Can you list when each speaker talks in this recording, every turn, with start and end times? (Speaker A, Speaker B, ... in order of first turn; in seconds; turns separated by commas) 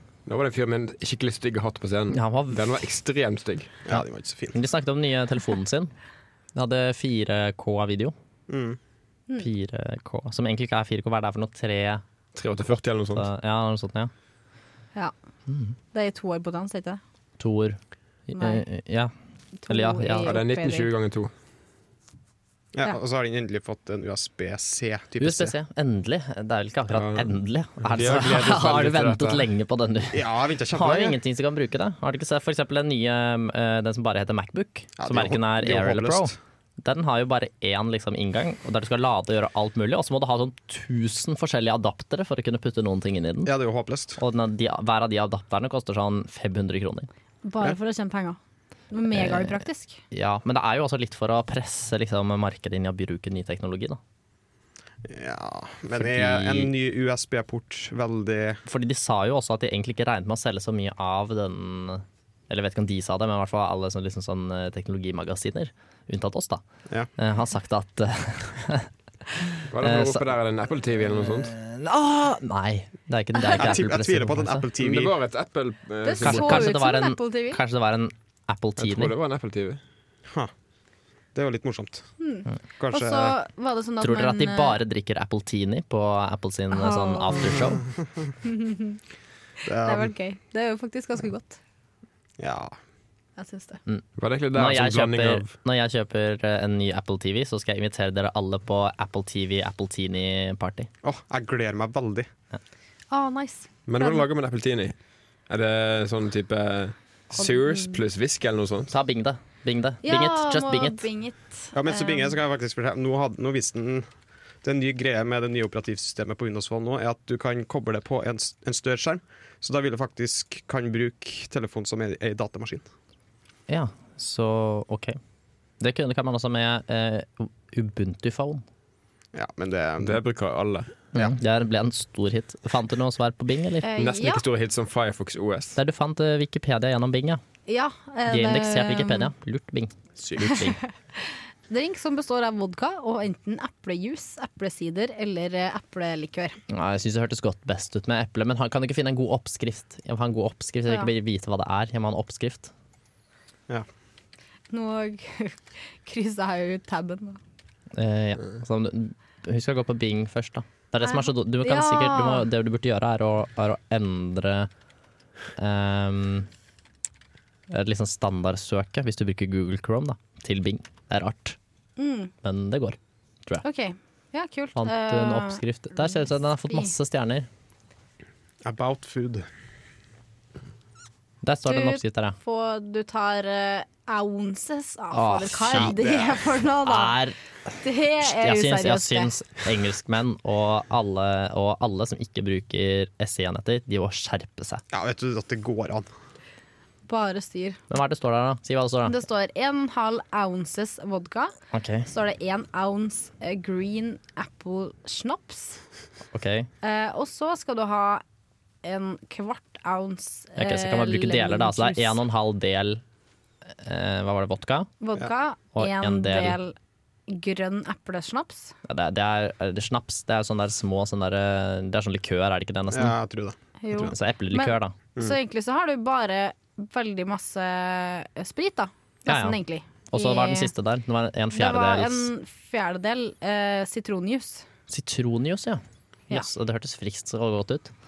Speaker A: 0.3-3.8, Speaker B: 2.1-2.6, Speaker C: 3.9-4.6, Speaker B: 4.5-5.9, Speaker B: 6.5-8.1, Speaker C: 8.5-8.8, Speaker B: 9.4-12.0, Speaker A: 12.3-13.3, Speaker B: 13.2-14.1, Speaker B: 15.5-15.8, Speaker D: 15.9-17.0, Speaker B: 17.4-19.1, Speaker D: 18.4-18.6, Speaker D: 19.6-20.9, Speaker B: 19.7-20.4, Speaker A: 20.2-21.3, Speaker C: 22.7-25.6, Speaker B: 25.2-43.5, Speaker A: 26.9-29.5, Speaker C: 30.1-31.2, Speaker C: 35.0-36.4, Speaker C: 43.5-44.2, Speaker B: 44.2-47.1, Speaker D: 47.5-48.4, Speaker D: 48.9-50.0, Speaker B: 49.1-49.6, Speaker B: 50.1-54.0, Speaker C: 55.0-58.6, Speaker B: 55.9-56.7, Speaker B: 58.7-66.6, Speaker B: 67.2-70.3, Speaker A: 69.7-71.5, Speaker B: 71.2-74.7, Speaker C: 73.6-75.2, Speaker A: 74.8-76.7, Speaker D: 76.0-77.6, Speaker B: 76.2-79.1, Speaker A: 78.8-79.8, Speaker C: 81.3-82.1, Speaker D: 82.2-84.8, Speaker C: 82.8-83.4, Speaker B: 84.0-87.8, Speaker D: 86.7-87.7, Speaker D: 88.5-89.0, Speaker C: 89.7-90.1, Speaker D: 89.8-91.6, Speaker C: 92.4-92.8, Speaker D: 93.4-93.8, Speaker B: 93.9-100.9, Speaker A: 94.2-95.5, Speaker C: 101.0-102.3, Speaker D: 103.1-104.2, Speaker A: 103.9-105.0, Speaker A: 105.5-108.9, Speaker D: 107.4-108.0, Speaker B: 108.9-111.0, Speaker D: 110.0-112.4, Speaker C: 111.8-114.1, Speaker C: 114.6-122.9, Speaker B: 123.7-125.2, Speaker B: 125.8-128.6, Speaker C: 129.3-130.2, Speaker A: 130.0-130.9, Speaker B: 131.1-133.9, Speaker D: 133.8-134.4, Speaker A: 134.0-135.8, Speaker B: 135.8-137.4, Speaker D: 137.7-139.3, Speaker B: 138.3-140.8, Speaker D: 140.4-146.6, Speaker B: 146.7-152.7, Speaker D: 150.9-151.1, Speaker D: 154.7-157.4, Speaker B: 158.0-164.7, Speaker D: 161.0-162.5, Speaker B: 165.6-166.5, Speaker B: 167.7-171.6, Speaker D: 172.0-172.3, Speaker B: 172.4-173.6, Speaker D: 173.6-176.9, Speaker B: 174.8-177.5, Speaker C: 178.6-179.5, Speaker B: 181.4-182.4, Speaker D: 181.7-187.2, Speaker B: 185.1-186.0, Speaker C: 185.7-186.5, Speaker B: 186.8-187.4, Speaker D: 187.8-189.3, Speaker B: 188.2-194.8, Speaker C: 194.9-196.1, Speaker D: 197.1-197.8, Speaker B: 197.9-199.2, Speaker D: 199.1-201.5, Speaker B: 201.7-202.1, Speaker D: 202.1-205.8, Speaker B: 206.3-206.7, Speaker D: 206.8-208.2, Speaker D: 208.8-212.2, Speaker B: 210.6-213.0, Speaker B: 213.7-214.9, Speaker D: 215.0-216.7, Speaker B: 215.8-216.6, Speaker D: 217.3-218.7, Speaker B: 218.8-223.2, Speaker C: 222.9-223.6, Speaker D: 223.8-230.7, Speaker B: 224.0-224.9, Speaker B: 229.3-229.6, Speaker B: 230.1-232.3, Speaker D: 231.5-234.7, Speaker B: 234.9-237.9